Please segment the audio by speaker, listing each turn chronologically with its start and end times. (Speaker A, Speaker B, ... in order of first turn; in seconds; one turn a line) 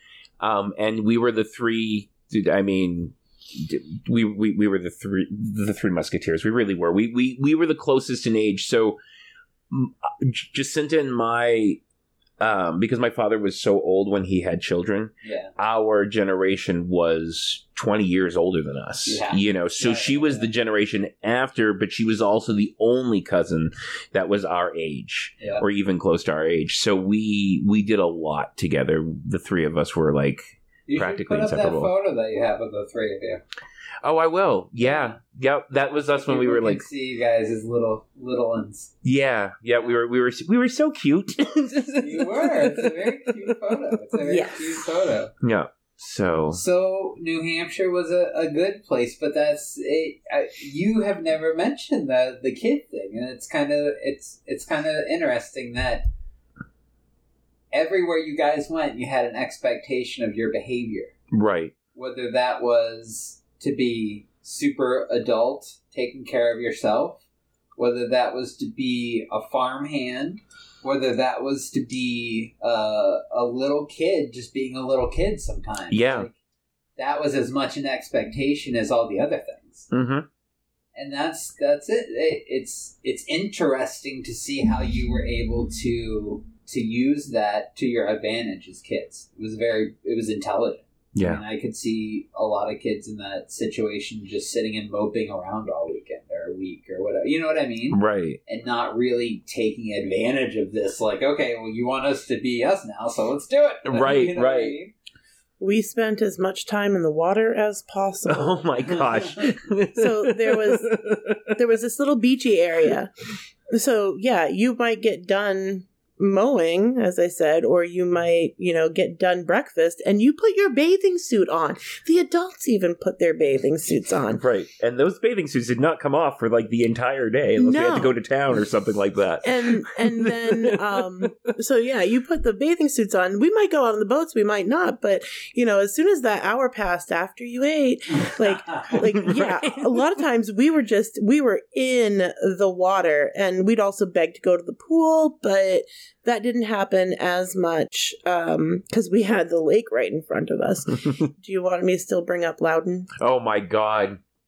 Speaker A: 0.4-9.0
Speaker A: 9.7-11.8
Speaker A: 12.4-31.9
Speaker B: 15.2-15.5
Speaker B: 19.1-20.5
Speaker B: 30.9-33.4
Speaker A: 34.0-36.9
Speaker B: 34.8-35.2
Speaker B: 36.0-38.9
Speaker A: 39.0-43.3
Speaker B: 42.0-45.3
Speaker C: 44.2-44.8
Speaker A: 45.4-46.6
Speaker B: 46.5-56.0
Speaker B: 57.7-61.1
Speaker A: 61.3-61.7
Speaker B: 61.9-67.2
Speaker B: 67.8-76.3
Speaker A: 75.9-76.3
Speaker B: 77.0-79.9
Speaker A: 79.9-80.3
Speaker B: 80.9-104.9
Speaker A: 91.1-91.4
Speaker A: 97.9-98.4
Speaker A: 103.8-104.8
Speaker C: 105.6-108.7
Speaker A: 108.2-111.5
Speaker C: 109.9-113.1
Speaker C: 113.7-124.4
Speaker A: 124.3-131.3
Speaker C: 127.6-128.1
Speaker C: 129.4-153.1
Speaker A: 138.9-140.0
Speaker A: 153.2-154.2